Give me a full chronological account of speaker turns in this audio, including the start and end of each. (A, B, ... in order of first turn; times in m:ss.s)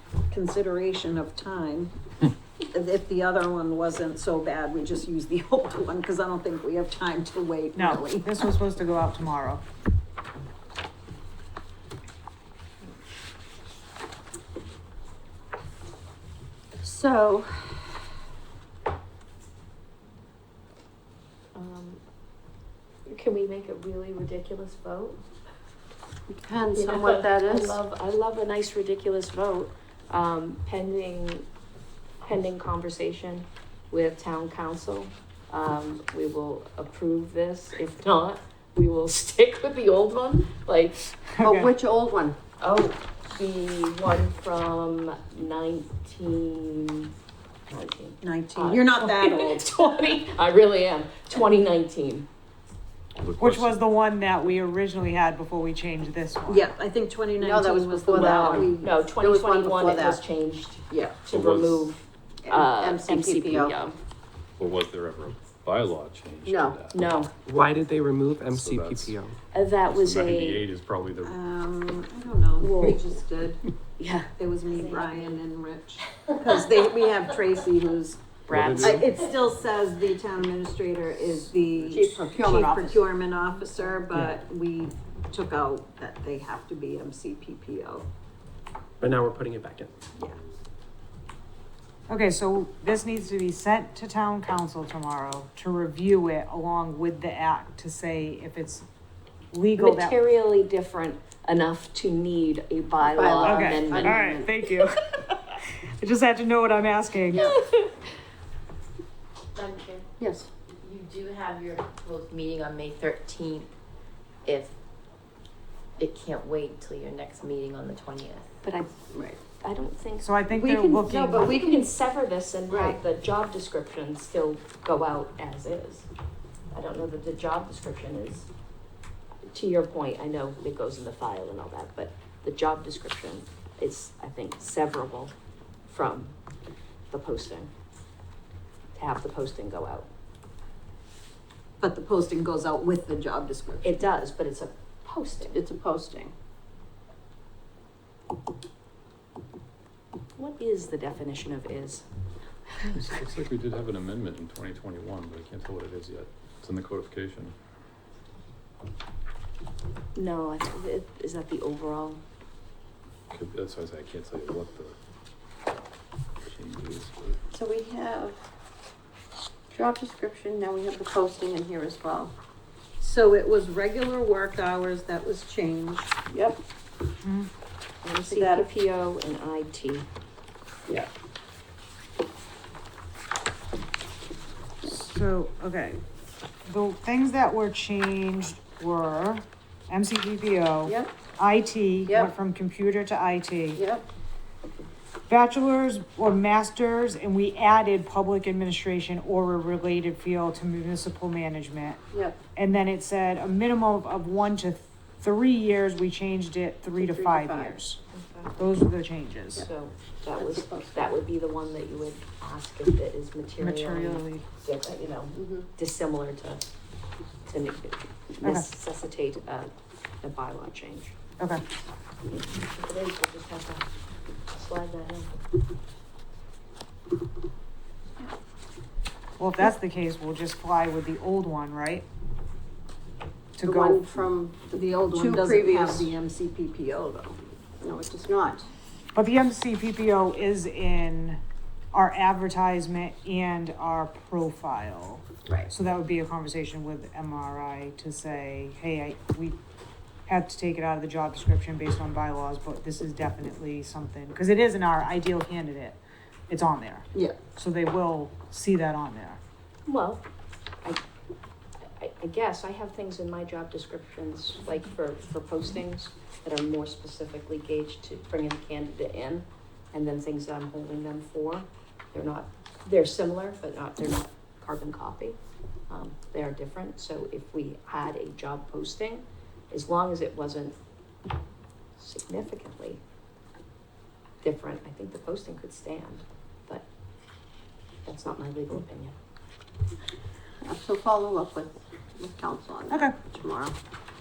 0:00.3-0:01.9 A
0:02.7-0:08.4 A
0:07.8-0:09.6 B
0:16.8-0:17.9 C
0:21.6-0:22.0 D
0:23.1-0:25.2 D
0:26.3-0:27.8 C
0:26.8-0:31.5 D
0:32.2-0:41.0 D
0:41.4-0:41.7 B
0:41.4-0:42.4 C
0:42.6-0:47.1 D
0:47.7-0:52.3 D
0:48.2-0:49.7 A
0:53.2-0:53.7 E
0:53.4-0:56.7 B
0:56.5-0:59.0 A
0:57.4-1:00.2 C
0:58.1-1:04.0 D
1:00.9-1:01.2 C
1:01.3-1:01.9 E
1:02.4-1:03.7 C
1:04.6-1:07.1 E
1:06.4-1:06.8 C
1:06.9-1:07.3 D
1:07.5-1:09.3 F
1:07.8-1:09.3 E
1:09.5-1:10.6 D
1:09.9-1:11.4 E
1:11.2-1:13.6 A
1:12.6-1:13.0 D
1:14.0-1:15.4 D
1:14.4-1:18.2 A
1:18.5-1:19.1 D
1:18.5-1:19.0 E
1:18.6-1:19.2 F
1:18.8-1:28.1 A
1:21.8-1:23.1 C
1:29.0-1:29.9 F
1:32.1-1:38.9 B
1:39.5-1:40.2 B
1:39.8-1:44.2 D
1:43.0-1:44.5 C
1:43.4-1:45.3 B
1:46.0-1:47.5 B
1:47.3-1:48.0 D
1:49.6-1:50.1 G
1:50.2-1:50.5 C
1:50.8-1:53.7 G
1:54.4-1:54.7 G
1:56.0-1:58.6 G
1:58.6-1:58.9 D
1:59.6-2:00.5 D
2:00.2-2:01.5 B
2:00.6-2:01.1 A
2:01.1-2:06.1 D
2:01.1-2:01.9 C
2:02.7-2:03.0 C
2:06.7-2:08.5 D
2:09.5-2:15.3 D
2:15.9-2:16.4 D
2:17.1-2:17.7 D
2:19.0-2:20.1 D
2:21.8-2:24.0 A
2:23.8-2:25.6 D
2:25.4-2:26.3 C
2:30.4-2:32.0 D
2:32.9-2:37.6 E
2:40.2-2:42.2 D
2:43.3-2:45.0 E
2:46.4-2:47.4 E
2:47.5-2:48.4 C
2:49.7-2:52.3 C
2:53.0-2:56.2 A
2:56.3-2:56.6 C
2:57.2-2:57.5 B
2:58.0-3:00.1 D
2:58.3-2:58.7 A
3:04.8-3:06.0 B
3:06.6-3:13.8 B
3:10.9-3:11.1 C
3:13.8-3:14.0 C
3:15.3-3:22.0 B
3:22.1-3:22.4 C
3:22.6-3:28.0 B
3:27.0-3:27.8 C
3:28.1-3:28.5 D
3:28.6-3:29.7 B
3:29.6-3:36.6 D
3:30.4-3:31.2 C
3:33.6-3:34.4 B
3:35.4-3:35.6 C
3:37.4-3:39.7 D
3:40.2-3:41.1 D
3:42.4-3:43.9 D
3:44.5-3:45.4 D
3:49.4-3:52.0 B
3:53.6-3:54.0 B
3:53.6-3:56.1 C
3:54.7-3:57.4 A
3:57.8-3:58.7 C
3:59.2-4:01.4 B
4:01.9-4:09.6 B
4:05.5-4:05.7 C
4:10.3-4:19.4 B
4:19.9-4:20.2 D
4:22.0-4:35.4 D
4:35.9-4:40.8 D
4:42.0-4:43.0 D
4:44.4-4:46.9 D
4:48.0-4:49.1 D
4:50.6-4:53.8 C
4:52.9-4:53.2 B